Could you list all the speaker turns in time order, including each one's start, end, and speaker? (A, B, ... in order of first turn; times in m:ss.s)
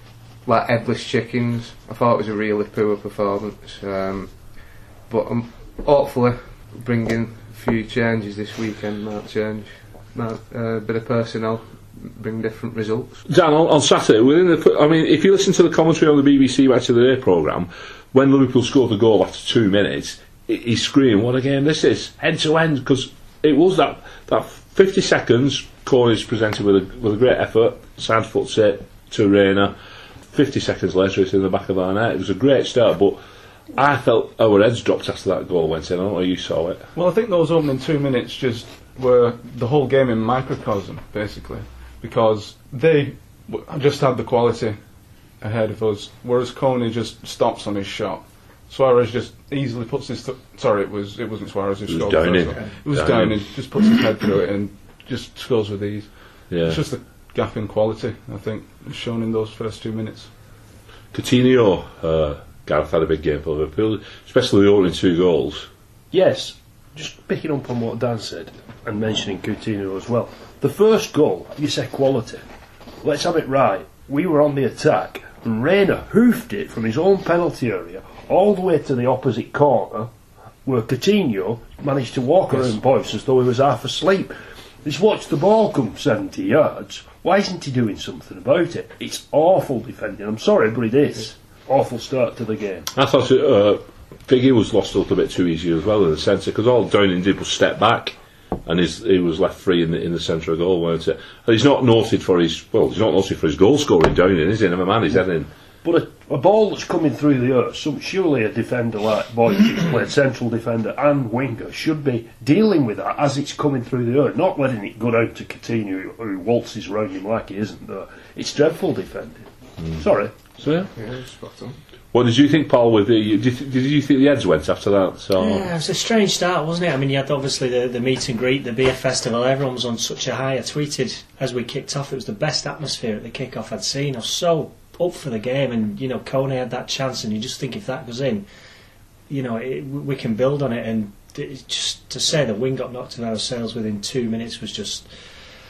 0:00.4-0:13.2 A
0:13.2-0:29.8 B
0:30.3-0:33.2 B
0:33.7-0:36.9 B
0:36.9-0:44.8 C
0:45.4-1:00.3 C
0:51.9-0:53.4 B
0:56.5-0:56.8 B
1:01.1-1:05.7 B
1:06.1-1:12.4 D
1:13.0-1:20.1 D
1:20.6-1:32.9 D
1:32.9-1:45.5 B
1:45.8-1:59.4 D
2:00.0-2:00.3 D
2:00.6-2:00.9 B
2:00.9-2:01.8 A
2:02.1-2:05.6 B
2:05.4-2:18.4 E
2:19.3-2:25.1 E